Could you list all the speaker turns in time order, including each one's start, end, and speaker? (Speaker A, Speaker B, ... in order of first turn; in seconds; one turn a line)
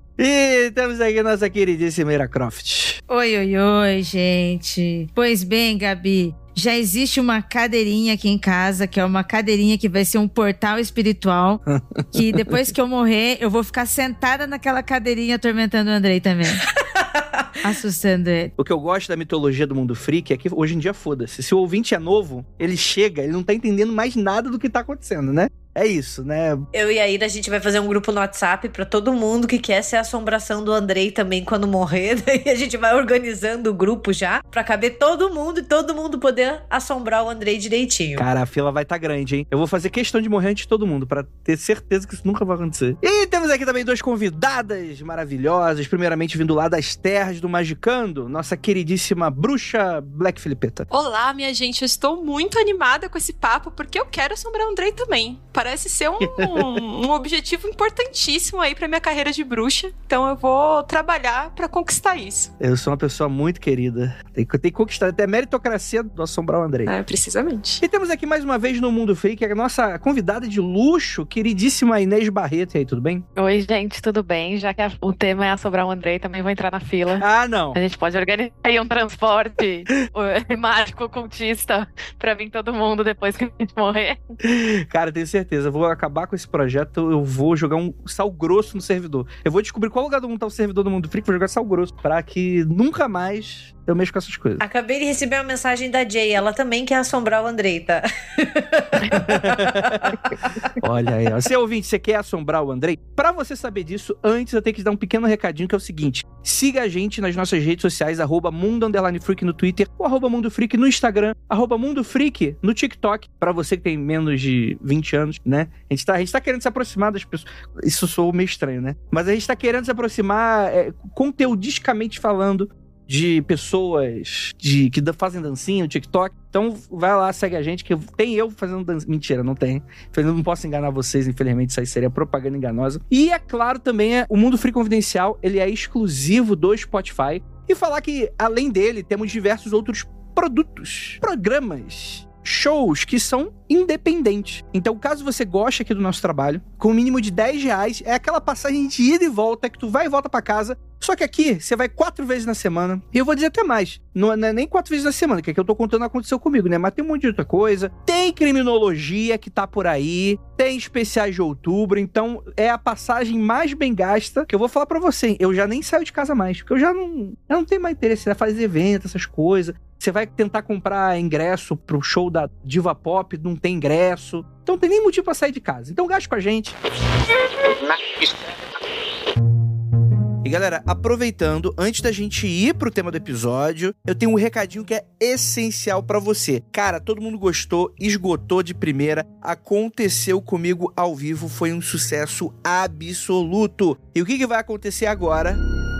Speaker A: 0.2-3.0
Speaker B: 3.1-11.6
Speaker A: 11.7-12.5
Speaker B: 12.1-16.6
Speaker C: 16.8-17.7
Speaker B: 17.6-18.5
Speaker A: 18.6-26.6
Speaker C: 26.7-38.2
Speaker A: 38.2-50.9
Speaker D: 50.9-62.5
Speaker A: 56.2-56.8
Speaker A: 62.6-66.9
Speaker D: 66.9-67.8
Speaker A: 67.8-73.2
Speaker E: 73.3-84.2
Speaker A: 77.2-77.8
Speaker A: 84.4-94.6
Speaker C: 94.6-100.1
Speaker A: 99.2-176.7
Speaker A: 180.4-195.6